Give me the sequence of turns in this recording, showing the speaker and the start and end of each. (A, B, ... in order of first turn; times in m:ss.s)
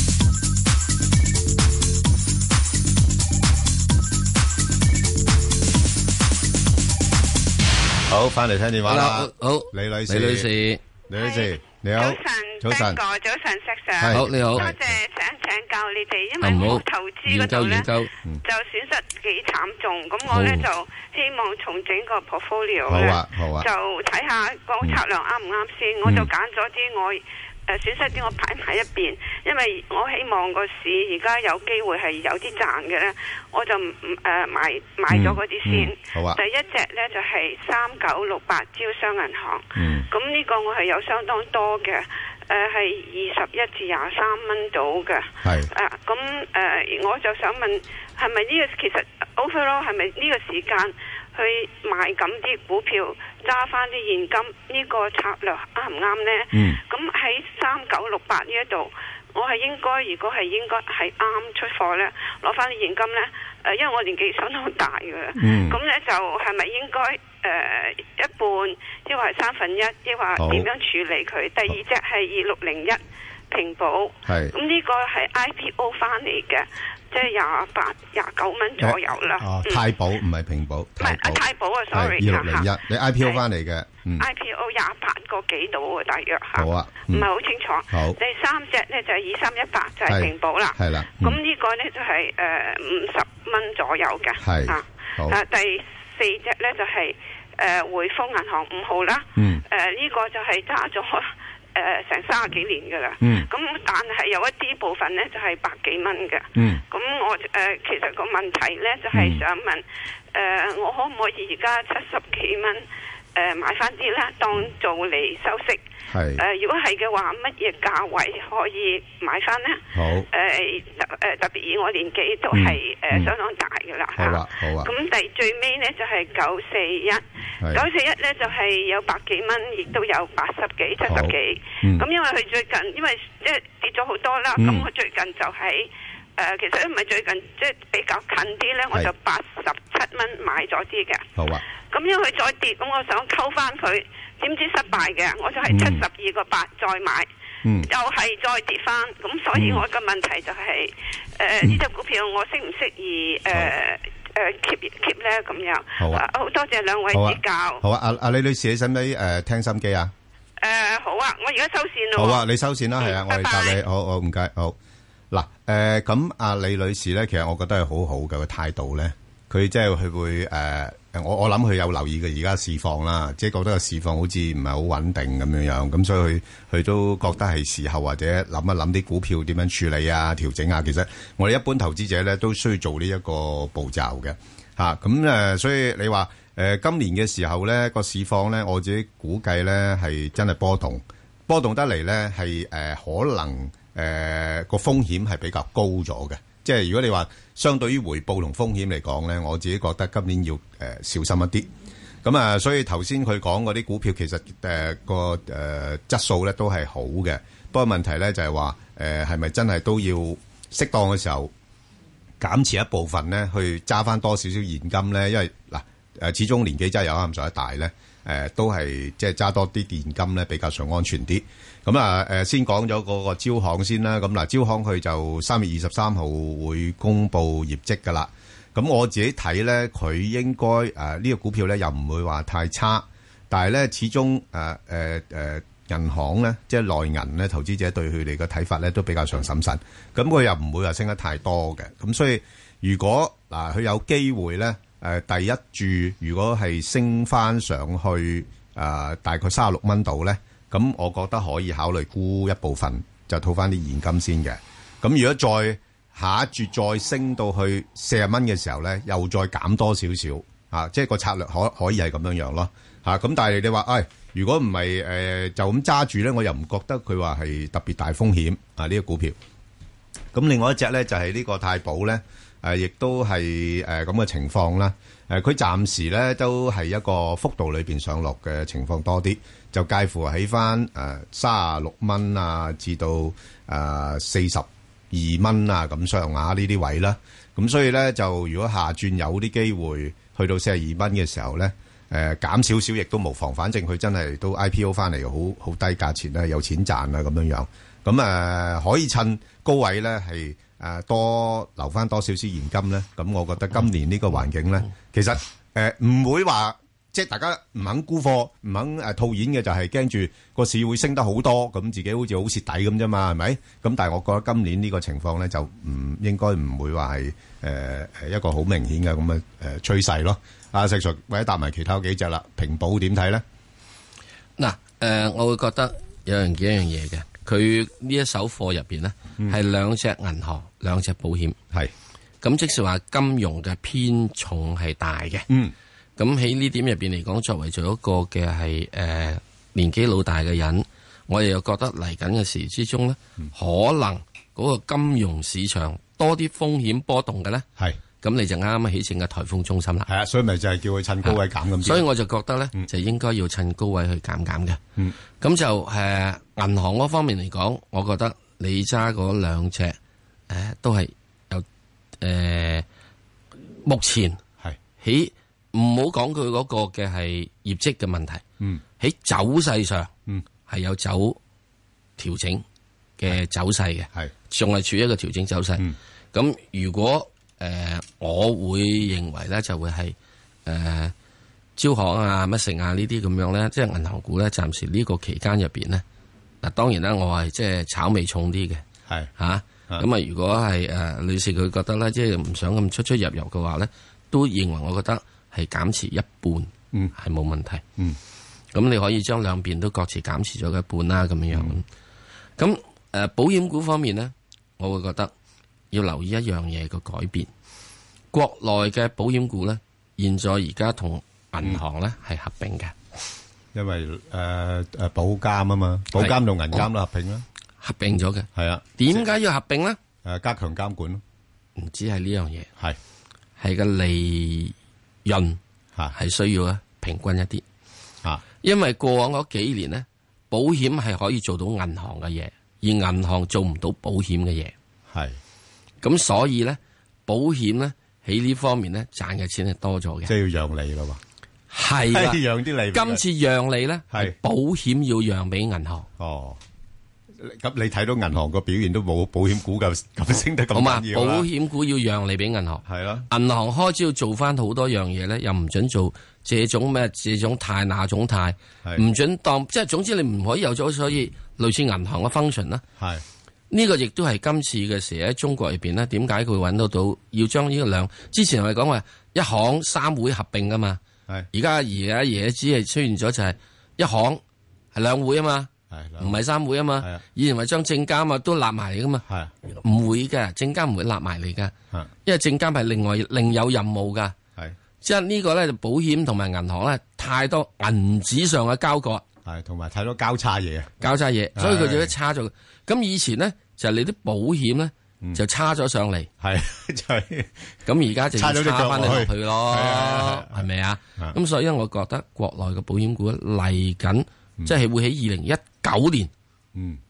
0:08.1-0:10.5 A
0:08.8-0:10.8 B
0:11.1-0:13.0 A
0:11.2-0:17.9 C
0:14.0-0:15.0 A
0:14.1-0:14.7 B
0:16.4-0:18.1 B
0:18.4-1:19.8 C
0:20.3-0:20.6 B
0:22.9-0:23.7 A
0:26.0-0:26.3 A
0:35.1-0:36.4 A
0:39.8-0:40.1 A
0:45.4-0:45.7 A
0:56.5-0:56.8 A
1:05.4-1:05.8 A
1:10.4-1:10.7 A
1:14.2-1:14.6 A
1:18.8-1:24.3 A
1:21.0-1:23.4 C
1:24.2-1:52.8 C
1:26.6-1:27.3 A
1:27.9-1:28.2 A
1:30.1-1:31.4 A
1:34.4-1:35.4 A
1:39.4-1:39.6 A
1:43.2-1:43.5 A
1:46.6-1:46.8 A
1:49.1-1:49.4 A
1:53.4-1:55.8 C
1:56.1-1:56.4 A
1:56.4-2:21.3 C
1:59.9-2:00.3 A
2:02.5-2:03.3 A
2:04.2-2:04.9 A
2:11.1-2:12.1 A
2:14.6-2:14.9 A
2:21.4-2:21.6 A
2:21.9-2:27.3 C
2:25.7-2:26.0 A
2:27.8-2:37.8 C
2:29.5-2:29.8 A
2:36.0-2:36.2 A
2:37.1-2:40.1 A
2:40.6-2:42.4 C
2:42.2-2:44.8 A
2:43.0-2:43.8 C
2:45.3-3:21.7 A
3:22.2-3:31.5 A
3:32.4-4:29.4 A
4:30.3-5:23.4 A
5:24.6-5:31.6 B
5:32.4-5:35.5 B
5:35.5-5:35.7 A
5:36.2-5:47.7 B
5:48.2-5:50.1 B
5:50.1-5:52.1 A
5:51.2-5:54.8 B
5:55.4-6:00.0 B
6:00.5-6:01.7 B
6:02.2-6:02.8 B
6:03.8-6:04.4 B
6:05.0-6:08.4 B
6:09.0-6:10.1 B
6:10.7-6:11.4 B
6:12.2-6:12.6 B
6:13.2-6:20.2 B
6:20.7-6:21.1 B
6:21.8-6:26.0 B
6:26.6-6:28.8 B
6:29.4-6:37.8 B
6:38.7-6:41.9 B
6:42.6-6:45.3 B
6:45.9-6:47.5 B
6:48.3-6:53.0 B
6:53.7-6:57.4 A
6:56.2-6:56.8 B
6:57.8-7:00.0 B
6:58.6-6:59.3 A
7:00.2-7:01.2 A
7:01.8-7:02.7 B
7:03.6-7:05.6 B
7:06.1-7:07.6 B
7:08.6-7:14.7 B
7:15.1-7:15.4 A
7:16.0-7:20.3 B
7:20.3-7:21.2 A
7:21.7-7:26.1 B
7:22.0-7:23.2 A
7:26.2-7:26.6 A
7:27.4-7:31.5 A
7:30.7-7:42.8 B
7:32.8-7:33.3 A
7:43.0-7:43.2 A
7:43.7-7:51.0 B
7:51.5-7:54.4 B
7:55.0-8:01.7 B
7:55.9-7:56.4 A
7:59.3-7:59.5 A
8:02.2-8:04.4 B
8:05.0-8:09.2 B
8:09.4-8:11.0 A
8:11.0-8:16.3 B
8:11.6-8:12.1 A
8:16.4-8:17.7 A
8:17.9-8:26.3 B
8:18.4-8:20.7 A
8:26.8-8:27.0 A